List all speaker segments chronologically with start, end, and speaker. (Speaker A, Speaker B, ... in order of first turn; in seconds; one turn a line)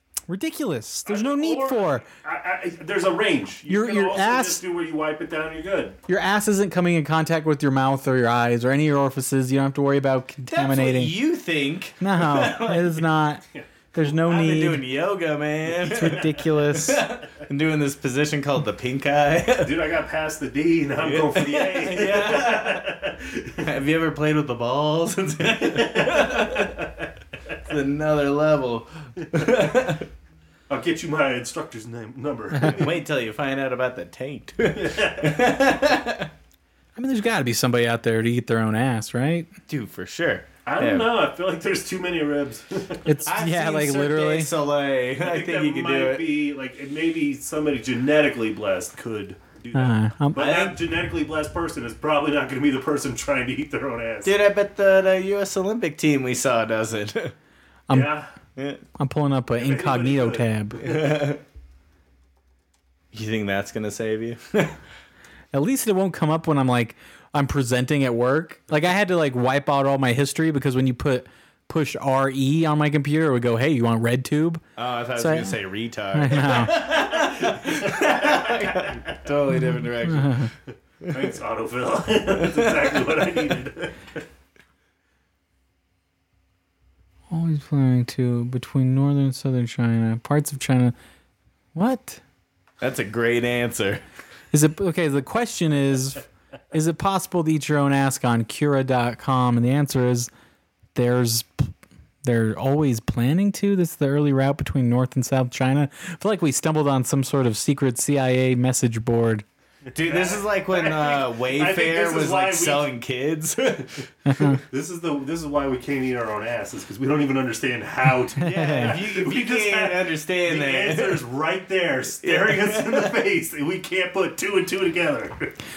Speaker A: 0.3-2.0
Speaker B: 1.1-6.0
Speaker A: 3.7-4.6
Speaker A: 6.1-11.1
Speaker C: 10.5-13.0
Speaker A: 12.0-13.4
Speaker A: 13.9-14.8
Speaker C: 14.2-19.8
Speaker A: 15.8-17.0
Speaker B: 19.6-23.6
Speaker C: 21.0-22.8
Speaker C: 23.6-26.7
Speaker B: 25.5-27.0
Speaker C: 27.6-30.1
Speaker B: 30.7-33.0
Speaker C: 32.6-36.3
Speaker B: 34.7-35.6
Speaker A: 37.0-39.5
Speaker C: 39.7-41.1
Speaker B: 40.6-43.1
Speaker A: 43.0-44.5
Speaker C: 43.2-46.2
Speaker B: 45.2-54.3
Speaker A: 49.7-50.4
Speaker C: 50.4-50.8
Speaker C: 54.2-57.3
Speaker B: 57.9-58.3
Speaker C: 58.5-58.8
Speaker A: 59.0-60.9
Speaker B: 59.6-60.5
Speaker C: 60.8-61.4
Speaker C: 63.1-64.8
Speaker A: 65.5-74.6
Speaker C: 74.8-80.5
Speaker A: 75.2-75.6
Speaker A: 76.1-76.8
Speaker B: 76.8-79.0
Speaker A: 79.5-80.5
Speaker B: 81.1-84.2
Speaker C: 82.4-82.7
Speaker A: 87.3-90.9
Speaker A: 91.7-92.2
Speaker C: 92.8-94.0
Speaker A: 94.5-100.3
Speaker A: 100.9-101.7
Speaker A: 102.2-109.4
Speaker C: 109.9-114.0
Speaker B: 110.0-112.9
Speaker A: 114.3-114.6
Speaker B: 114.5-125.5
Speaker A: 118.4-118.9
Speaker C: 118.4-121.2
Speaker C: 122.2-123.1